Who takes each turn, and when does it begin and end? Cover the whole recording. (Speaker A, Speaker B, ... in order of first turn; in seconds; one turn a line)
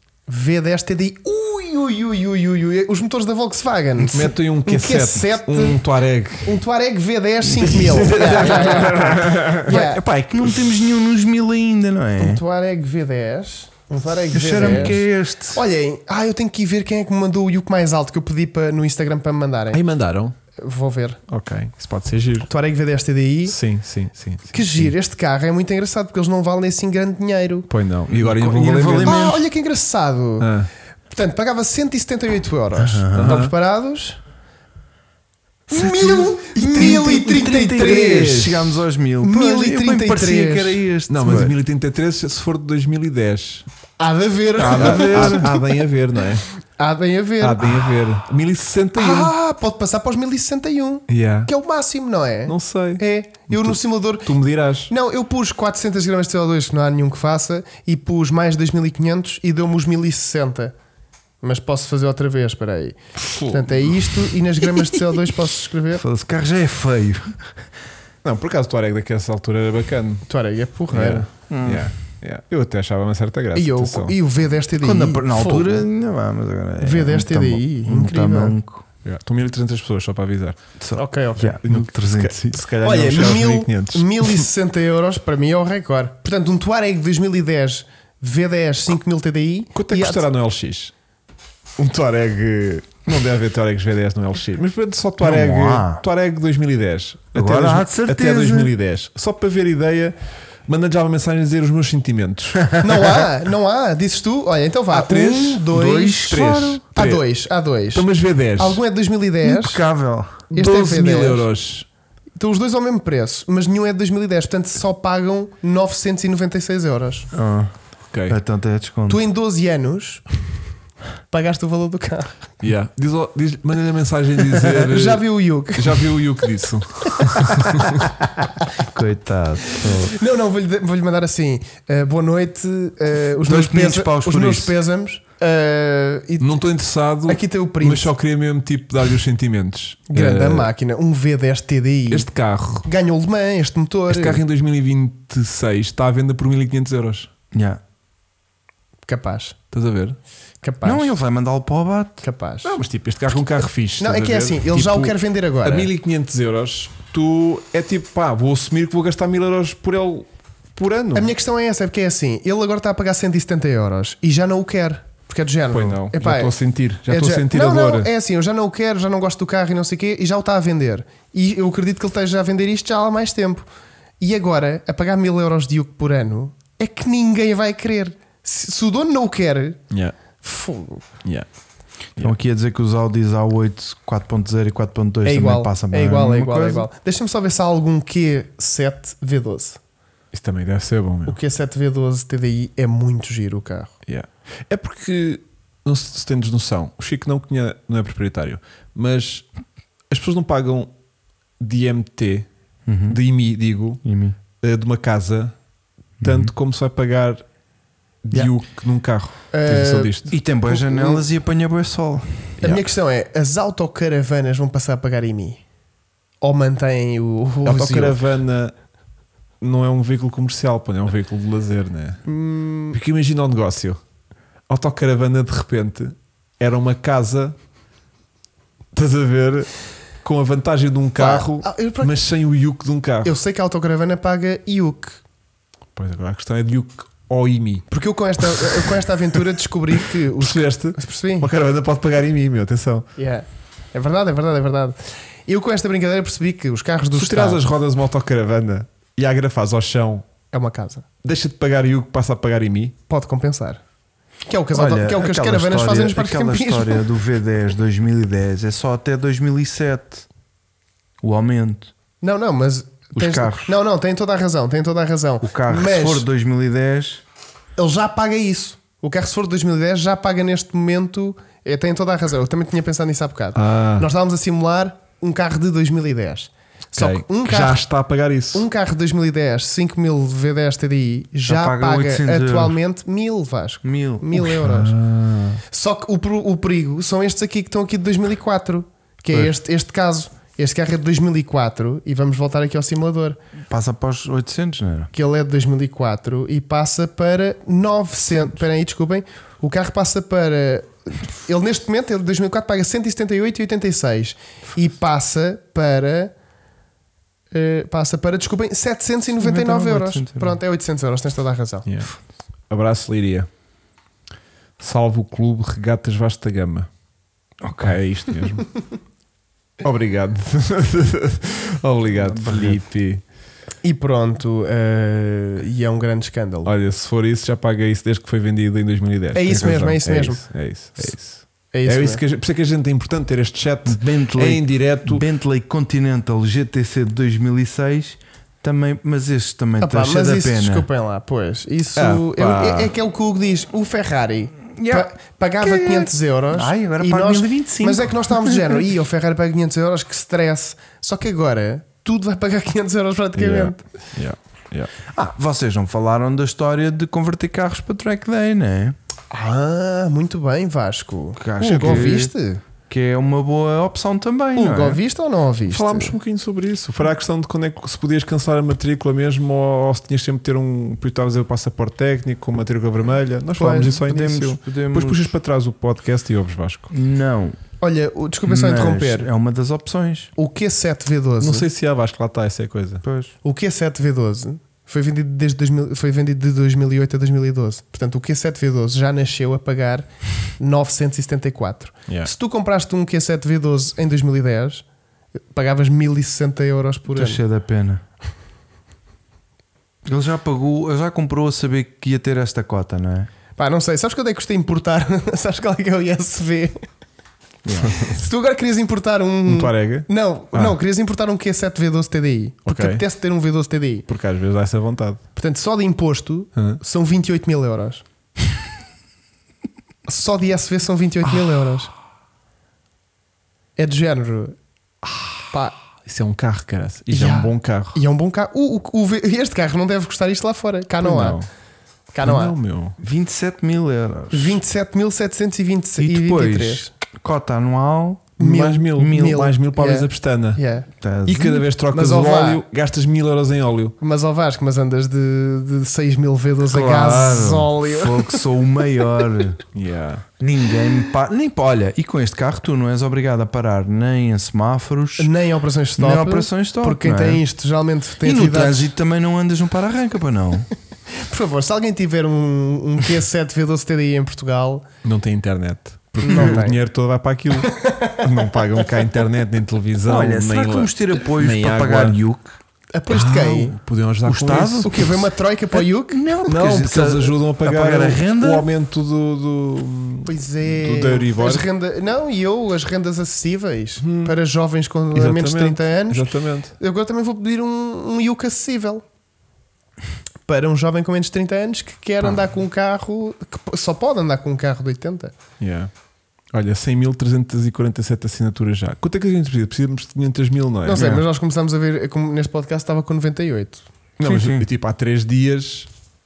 Speaker A: 0.3-5.8
Speaker B: 4.1-6.6
Speaker A: 6.4-10.0
Speaker B: 7.4-10.7
Speaker C: 8.7-12.4
Speaker A: 12.2-19.8
Speaker C: 14.3-15.6
Speaker B: 14.5-15.0
Speaker B: 19.7-20.3
Speaker A: 20.6-21.2
Speaker B: 21.3-22.5
Speaker A: 22.5-23.6
Speaker B: 23.4-24.9
Speaker A: 24.5-27.7
Speaker B: 27.7-29.3
Speaker C: 28.1-29.4
Speaker A: 29.0-30.5
Speaker B: 30.4-30.7
Speaker A: 31.1-34.2
Speaker C: 32.9-33.4
Speaker B: 33.0-33.5
Speaker A: 35.7-38.5
Speaker C: 35.7-41.5
Speaker B: 37.8-38.6
Speaker A: 39.2-40.8
Speaker B: 41.0-43.7
Speaker A: 44.0-45.6
Speaker C: 44.6-45.5
Speaker B: 44.7-46.5
Speaker A: 46.8-47.9
Speaker B: 47.4-49.3
Speaker A: 48.9-54.3
Speaker B: 51.1-51.5
Speaker B: 52.5-54.9
Speaker A: 54.9-60.7
Speaker A: 61.4-63.0
Speaker B: 63.1-64.2
Speaker A: 63.5-66.0
Speaker C: 65.9-67.6
Speaker B: 68.2-70.2
Speaker A: 70.3-71.3
Speaker B: 70.9-74.2
Speaker C: 71.5-71.9
Speaker A: 73.5-75.8
Speaker C: 74.8-78.8
Speaker A: 76.8-78.5
Speaker B: 79.0-80.6
Speaker C: 80.8-82.6
Speaker A: 81.0-81.6
Speaker B: 81.6-84.5
Speaker A: 82.8-90.2
Speaker B: 89.7-90.9
Speaker B: 91.8-100.1
Speaker C: 95.2-96.0
Speaker C: 97.3-98.7
Speaker B: 100.7-103.2
Speaker A: 102.8-106.4
Speaker B: 104.9-107.2
Speaker C: 105.7-106.8
Speaker A: 106.9-109.8
Speaker B: 107.9-108.8
Speaker C: 109.4-110.4
Speaker B: 110.5-111.9
Speaker A: 110.5-111.5
Speaker A: 112.4-117.3
Speaker C: 117.3-117.7
Speaker B: 118.1-118.4
Speaker C: 118.3-119.2
Speaker A: 119.1-120.2
Speaker A: 121.3-122.3
Speaker B: 122.6-128.1
Speaker A: 124.5-126.1
Speaker A: 127.2-127.9
Speaker C: 128.4-130.1
Speaker A: 129.9-136.6
Speaker C: 133.4-134.7
Speaker B: 136.4-140.7
Speaker A: 137.2-138.1
Speaker A: 140.1-142.3
Speaker B: 142.1-142.9
Speaker A: 142.8-144.4
Speaker B: 144.1-147.3
Speaker C: 147.5-147.8
Speaker A: 149.1-149.6
Speaker B: 149.7-150.2
Speaker A: 150.6-151.1
Speaker C: 150.8-152.2
Speaker A: 152.2-152.8
Speaker B: 152.6-161.3
Speaker A: 154.0-155.9
Speaker A: 161.1-166.5
Speaker B: 165.7-168.1
Speaker A: 167.1-173.7
Speaker A: 174.2-179.8
Speaker A: 180.4-181.0
Speaker C: 182.2-186.9
Speaker A: 185.2-189.8
Speaker B: 190.3-191.4
Speaker A: 191.3-193.9
Speaker B: 194.1-199.4
Speaker B: 200.1-200.9
Speaker B: 201.6-202.5
Speaker C: 202.8-203.2
Speaker B: 203.1-204.0
Speaker C: 204.0-204.3
Speaker B: 204.6-205.5
Speaker C: 206.2-206.5
Speaker B: 206.2-207.4
Speaker B: 208.2-210.3
Speaker A: 209.5-210.1
Speaker C: 210.3-212.6
Speaker A: 210.7-211.2
Speaker A: 212.6-215.6
Speaker A: 216.4-218.2
Speaker B: 217.6-218.7
Speaker B: 219.6-222.2
Speaker A: 222.2-223.0
Speaker B: 222.9-224.0
Speaker B: 224.7-227.6
Speaker B: 228.9-233.3
Speaker A: 231.2-232.1
Speaker A: 233.2-235.2
Speaker B: 235.9-239.0
Speaker A: 237.9-241.5
Speaker B: 240.4-243.1
Speaker A: 243.2-247.6
Speaker B: 247.1-250.2
Speaker A: 250.5-251.0
Speaker B: 251.2-252.9
Speaker A: 253.1-253.8
Speaker A: 254.4-257.0
Speaker C: 254.7-260.3
Speaker C: 261.2-261.9
Speaker A: 262.2-266.2
Speaker C: 263.1-263.7
Speaker C: 265.4-267.2
Speaker A: 267.8-277.8
Speaker B: 273.5-274.1
Speaker B: 276.9-278.6
Speaker A: 278.5-284.9
Speaker C: 281.4-282.8
Speaker C: 283.8-284.4
Speaker B: 284.4-285.6
Speaker A: 285.7-293.4
Speaker C: 293.7-295.1
Speaker A: 295.1-306.3
Speaker A: 307.5-311.9
Speaker C: 309.4-310.6
Speaker B: 311.9-312.1
Speaker B: 312.7-313.5
Speaker B: 314.8-316.9
Speaker C: 317.6-318.0
Speaker B: 317.8-318.9
Speaker B: 319.8-323.2
Speaker C: 322.1-322.8
Speaker A: 323.8-326.7
Speaker B: 326.6-335.2
Speaker A: 329.3-330.4
Speaker A: 331.7-332.2
Speaker C: 333.9-340.9
Speaker A: 339.8-353.8
Speaker B: 341.9-342.9
Speaker C: 344.8-345.1
Speaker C: 345.6-348.8
Speaker B: 353.4-354.9
Speaker C: 355.1-359.0
Speaker A: 359.3-362.6
Speaker C: 361.4-362.3
Speaker B: 361.6-362.1
Speaker C: 362.9-365.0
Speaker A: 364.6-366.1
Speaker B: 365.7-376.9
Speaker A: 373.6-374.0
Speaker C: 373.9-375.3
Speaker C: 376.9-377.6
Speaker A: 377.8-379.3
Speaker C: 378.4-380.3
Speaker A: 380.4-381.6
Speaker B: 381.4-383.0
Speaker C: 383.0-383.3
Speaker A: 383.4-394.8
Speaker A: 395.5-397.4
Speaker C: 397.1-398.0
Speaker C: 400.0-403.3
Speaker A: 403.6-406.8
Speaker C: 407.6-408.0
Speaker B: 407.8-408.2
Speaker A: 408.0-414.1
Speaker B: 409.4-410.8
Speaker B: 412.6-413.0
Speaker B: 414.1-415.2
Speaker A: 415.4-418.0
Speaker A: 420.1-421.9
Speaker A: 423.8-424.6
Speaker A: 425.5-425.8
Speaker B: 426.0-428.0
Speaker A: 427.1-431.4
Speaker B: 431.0-431.5
Speaker A: 432.1-432.5
Speaker B: 432.2-432.9
Speaker C: 433.0-434.6
Speaker A: 434.3-436.9
Speaker C: 436.0-438.4
Speaker B: 438.4-440.6
Speaker A: 438.4-440.9
Speaker C: 438.9-439.4
Speaker C: 441.0-441.6
Speaker B: 441.2-443.9
Speaker A: 441.9-442.6
Speaker A: 444.0-448.4
Speaker C: 446.7-449.6
Speaker B: 449.7-450.2
Speaker C: 450.4-455.3
Speaker A: 455.2-458.9
Speaker C: 456.0-457.4
Speaker C: 458.2-460.7
Speaker A: 461.2-464.8
Speaker B: 465.0-472.2
Speaker C: 466.2-466.6
Speaker A: 466.2-466.8
Speaker A: 467.7-468.2
Speaker C: 470.1-472.6
Speaker A: 472.9-473.8
Speaker B: 473.1-475.2
Speaker C: 474.2-475.1
Speaker A: 474.8-476.4
Speaker C: 475.7-478.7
Speaker B: 476.4-481.7
Speaker A: 480.2-489.0
Speaker B: 484.0-484.3
Speaker B: 485.1-486.7
Speaker A: 490.5-495.3
Speaker B: 495.6-495.9
Speaker B: 496.5-501.2
Speaker A: 500.8-503.9
Speaker B: 504.2-505.9
Speaker C: 504.2-504.7